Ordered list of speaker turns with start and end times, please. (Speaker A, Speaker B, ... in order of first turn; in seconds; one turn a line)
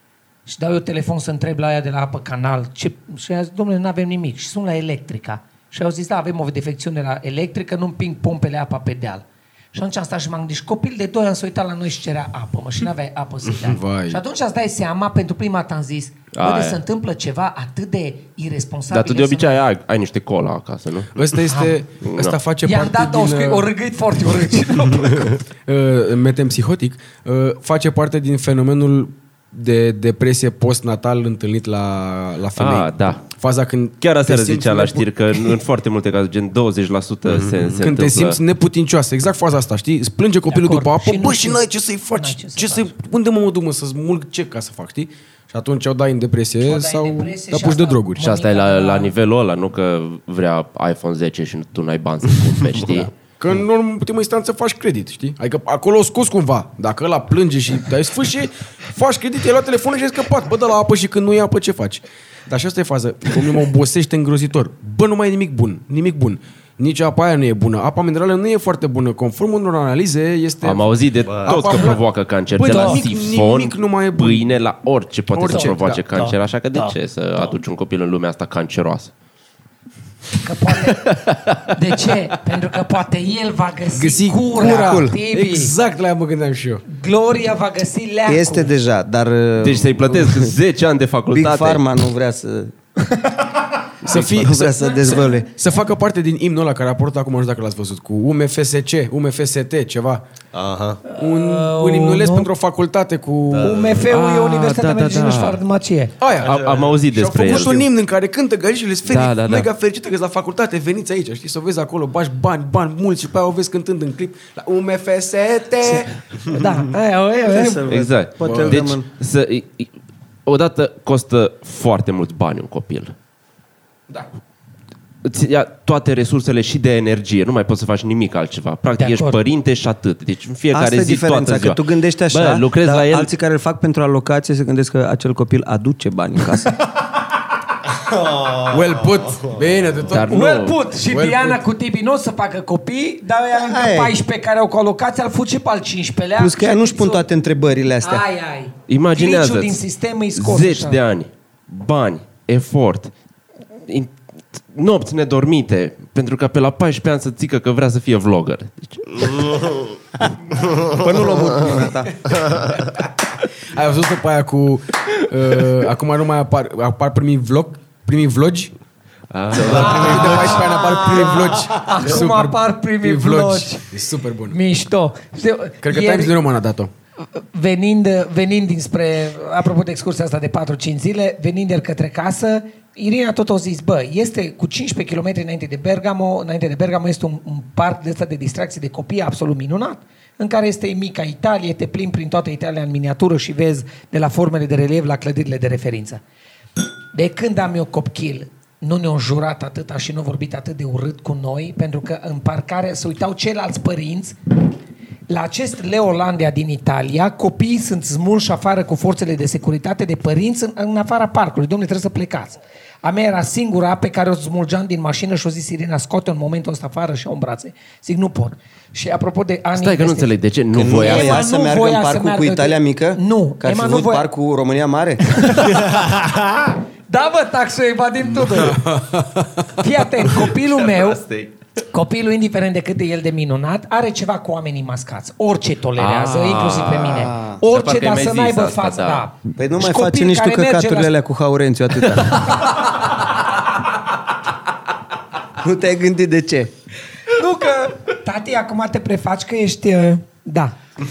Speaker A: 0.5-19.6
Speaker B: 13.7-14.2
Speaker C: 16.3-16.8
Speaker C: 18.9-21.2
Speaker B: 21.2-23.7
Speaker A: 21.5-21.8
Speaker C: 22.0-22.4
Speaker A: 22.6-25.4
Speaker B: 25.1-35.6
Speaker C: 32.6-33.2
Speaker C: 34.0-38.4
Speaker B: 37.8-48.2
Speaker A: 40.5-42.9
Speaker A: 46.6-49.1
Speaker C: 48.2-53.1
Speaker B: 52.8-72.0
Speaker C: 70.6-79.1
Speaker D: 71.2-71.7
Speaker B: 72.6-74.6
Speaker A: 72.6-73.0
Speaker B: 75.3-76.2
Speaker A: 75.5-76.9
Speaker A: 80.4-85.7
Speaker B: 83.9-86.8
Speaker E: 84.5-85.2
Speaker A: 86.8-88.7
Speaker E: 88.2-90.5
Speaker C: 89.6-91.8
Speaker E: 91.3-92.7
Speaker A: 93.1-93.4
Speaker B: 94.0-100.2
Speaker E: 94.0-95.5
Speaker D: 100.5-101.1
Speaker A: 101.1-102.5
Speaker B: 101.2-104.0
Speaker D: 103.5-103.9
Speaker A: 103.6-106.1
Speaker C: 104.1-105.6
Speaker B: 106.2-116.5
Speaker C: 106.4-107.9
Speaker D: 106.4-106.8
Speaker C: 109.1-109.7
Speaker A: 116.5-117.8
Speaker E: 117.5-119.1
Speaker C: 117.9-119.9
Speaker B: 118.4-118.8
Speaker C: 120.5-123.1
Speaker C: 125.2-133.3
Speaker A: 129.0-129.4
Speaker E: 130.7-136.8
Speaker D: 138.2-138.7
Speaker B: 138.7-140.2
Speaker C: 140.1-140.8
Speaker A: 140.1-147.3
Speaker B: 141.1-141.6
Speaker E: 143.6-144.1
Speaker E: 146.4-148.2
Speaker A: 148.0-151.0
Speaker C: 148.9-149.8
Speaker C: 150.3-153.1
Speaker C: 153.9-154.1
Speaker C: 154.7-159.8
Speaker E: 160.7-162.4
Speaker B: 163.7-168.7
Speaker C: 169.3-170.6
Speaker B: 169.5-174.6
Speaker A: 169.7-173.9
Speaker A: 174.5-176.3
Speaker B: 175.8-176.9
Speaker A: 177.3-196.2
Speaker A: 197.1-204.4
Speaker A: 205.3-220.3
Speaker C: 219.7-221.4
Speaker E: 220.7-225.7
Speaker A: 220.8-224.3
Speaker A: 225.3-228.9
Speaker B: 228.5-229.6
Speaker A: 229.8-231.2
Speaker C: 230.8-231.5
Speaker A: 231.9-241.1
Speaker C: 236.0-239.2
Speaker E: 237.0-237.6
Speaker E: 239.6-242.6
Speaker E: 245.6-246.7
Speaker A: 247.3-250.8